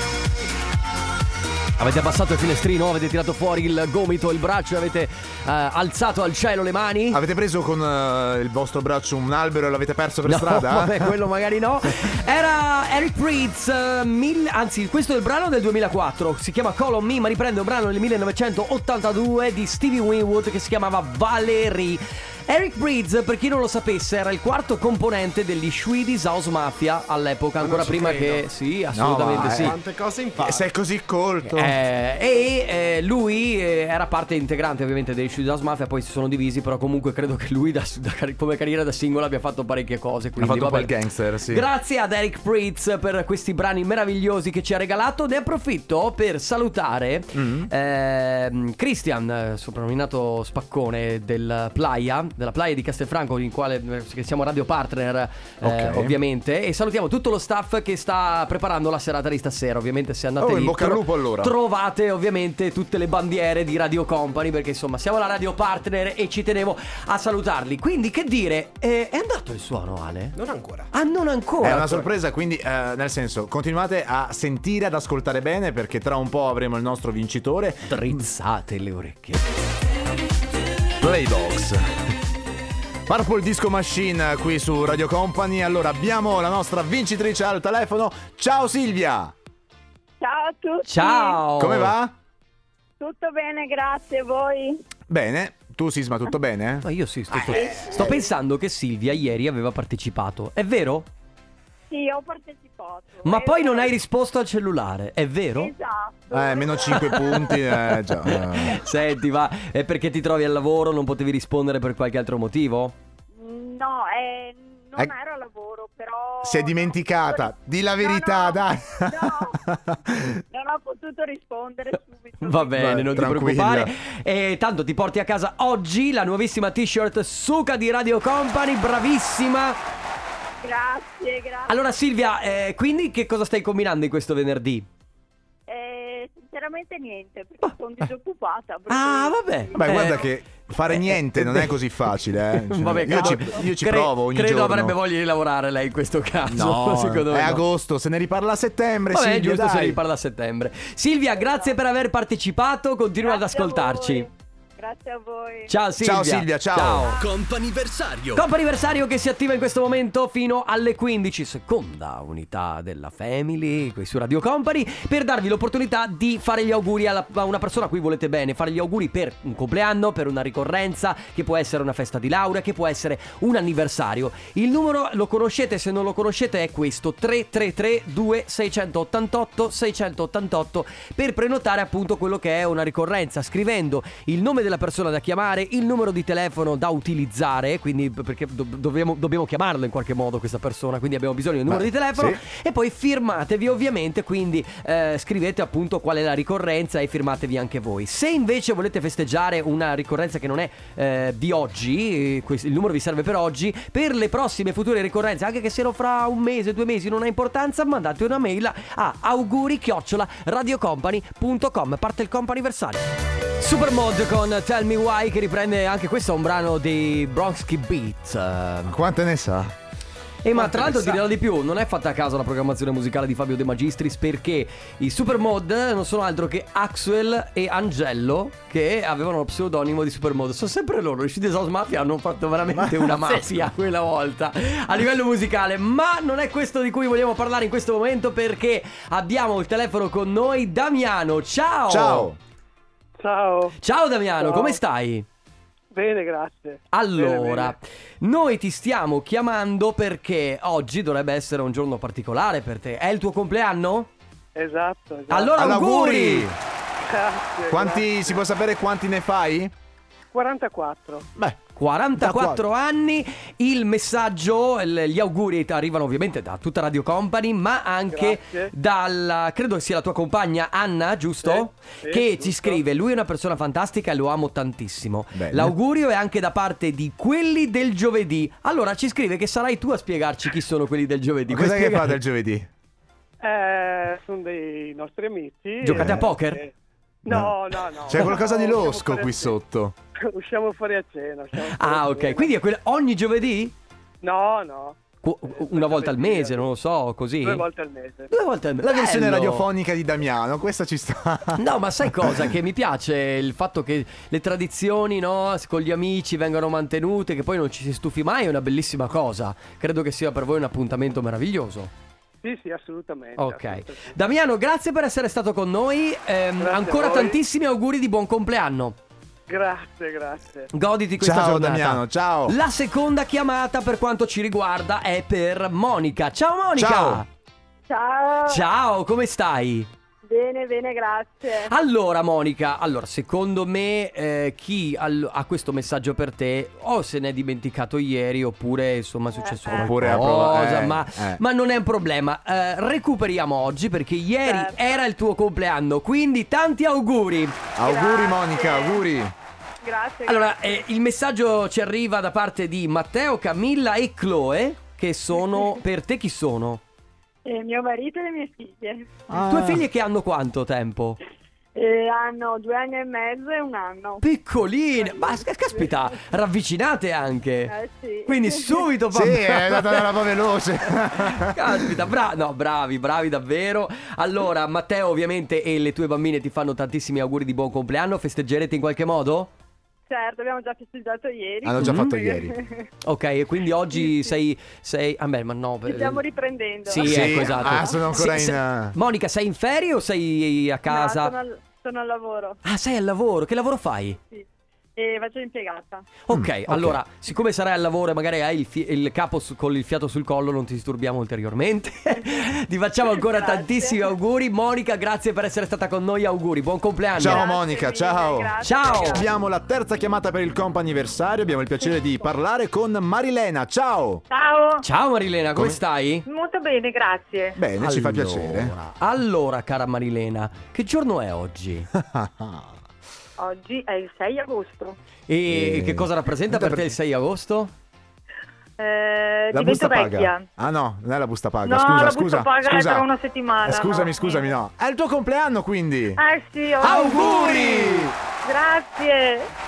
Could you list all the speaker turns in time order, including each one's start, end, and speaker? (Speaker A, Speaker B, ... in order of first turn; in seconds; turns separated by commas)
Speaker A: 1.8-7.2, Speaker B: 7.1-11.1, Speaker A: 10.2-29.8, Speaker C: 27.6-28.5, Speaker B: 28.9-29.8, Speaker C: 29.3-30.7, Speaker B: 30.4-31.7, Speaker A: 31.5-70.3, Speaker B: 40.4-41.6, Speaker B: 47.3-47.7, Speaker B: 55.6-56.2, Speaker B: 60.4-61.5, Speaker C: 70.3-70.9, Speaker A: 70.9-72.0, Speaker B: 71.6-78.2, Speaker A: 77.9-79.4, Speaker B: 81.0-81.8, Speaker B: 83.1-89.3, Speaker D: 90.2-91.4, Speaker A: 90.8-91.9, Speaker B: 91.5-92.1, Speaker D: 93.0-94.8, Speaker B: 95.1-98.2, Speaker A: 96.8-101.1, Speaker D: 101.9-103.9, Speaker A: 103.2-105.7, Speaker D: 105.6-107.5, Speaker B: 106.3-108.8, Speaker A: 108.2-112.9, Speaker D: 113.4-119.6, Speaker B: 116.4-120.4, Speaker D: 120.5-122.8, Speaker A: 122.4-129.8, Speaker B: 122.7-123.9, Speaker D: 130.6-131.8, Speaker A: 131.7-134.8, Speaker D: 135.7-140.2, Speaker A: 138.9-140.3, Speaker B: 139.8-145.0, Speaker A: 140.9-141.7, Speaker A: 142.6-147.6, Speaker B: 146.5-150.0, Speaker A: 149.1-154.3, Speaker D: 151.4-151.7, Speaker D: 153.2-155.7, Speaker A: 155.7-157.2, Speaker B: 156.0-158.3, Speaker A: 158.3-213.1, Speaker B: 191.7-192.4, Speaker A: 213.6-218.9, Speaker B: 218.9-219.7, Speaker A: 220.4-242.3, Speaker B: 232.7-233.6, Speaker B: 241.9-242.4, Speaker E: 243.2-243.8, Speaker A: 243.8-245.2, Speaker E: 244.4-244.8, Speaker E: 245.9-247.7, Speaker A: 246.9-254.1, Speaker E: 254.5-255.7, Speaker A: 255.3-256.5, Speaker B: 255.5-256.6, Speaker E: 257.1-258.4, Speaker B: 257.7-259.7, Speaker E: 260.3-261.3, Speaker A: 261.8-282.2, Speaker B: 262.1-262.6, Speaker E: 268.1-268.7, Speaker E: 271.4-272.8, Speaker B: 275.3-275.7, Speaker B: 281.5-282.7, Speaker E: 283.4-286.7, Speaker A: 285.8-286.6, Speaker B: 285.9-286.2, Speaker E: 287.2-289.6, Speaker B: 287.3-289.9, Speaker E: 290.2-292.5, Speaker A: 291.6-293.7, Speaker E: 294.2-296.7, Speaker A: 295.2-297.7, Speaker E: 297.4-298.3, Speaker A: 298.3-299.7, Speaker B: 298.8-301.6, Speaker A: 301.6-311.9, Speaker E: 312.4-314.1, Speaker A: 313.4-319.0, Speaker E: 316.6-317.4, Speaker E: 319.5-320.7, Speaker A: 320.7-327.3, Speaker B: 321.2-322.6, Speaker B: 326.7-327.2, Speaker D: 327.9-328.6, Speaker A: 328.5-329.9, Speaker D: 330.3-331.7, Speaker A: 331.6-347.6, Speaker D: 339.3-340.0, Speaker B: 339.8-341.4, Speaker D: 344.4-345.0, Speaker B: 347.8-349.3, Speaker D: 347.8-349.1, Speaker D: 349.8-350.8, Speaker A: 350.2-356.8, Speaker D: 357.4-359.1, Speaker B: 359.3-359.8, Speaker A: 359.4-361.2, Speaker D: 361.7-364.2, Speaker A: 364.2-367.7, Speaker D: 365.0-366.1, Speaker D: 367.7-368.9, Speaker A: 368.2-370.1, Speaker B: 369.1-371.8, Speaker A: 371.1-379.5, Speaker D: 380.1-382.9, Speaker B: 381.6-382.5, Speaker A: 381.8-382.1, Speaker A: 383.0-386.2, Speaker D: 385.9-388.0, Speaker A: 386.9-391.3, Speaker B: 387.0-388.9, Speaker D: 390.9-392.6, Speaker A: 392.6-394.2, Speaker D: 394.9-396.0, Speaker A: 396.3-407.5, Speaker B: 396.3-397.0, Speaker D: 403.1-404.1, Speaker B: 407.2-414.2, Speaker D: 407.2-409.3, Speaker A: 408.6-409.2, Speaker F: 414.3-414.8, Speaker A: 414.8-416.2, Speaker B: 415.5-415.8, Speaker F: 416.2-417.6, Speaker B: 417.6-418.7, Speaker A: 417.8-421.9, Speaker B: 421.9-422.7, Speaker F: 423.4-424.9, Speaker A: 425.3-427.7, Speaker B: 425.5-426.9, Speaker F: 428.8-430.4, Speaker B: 429.5-433.1, Speaker F: 431.6-434.5, Speaker B: 433.6-436.2, Speaker F: 436.2-439.5, Speaker A: 436.8-438.1, Speaker B: 436.8-438.1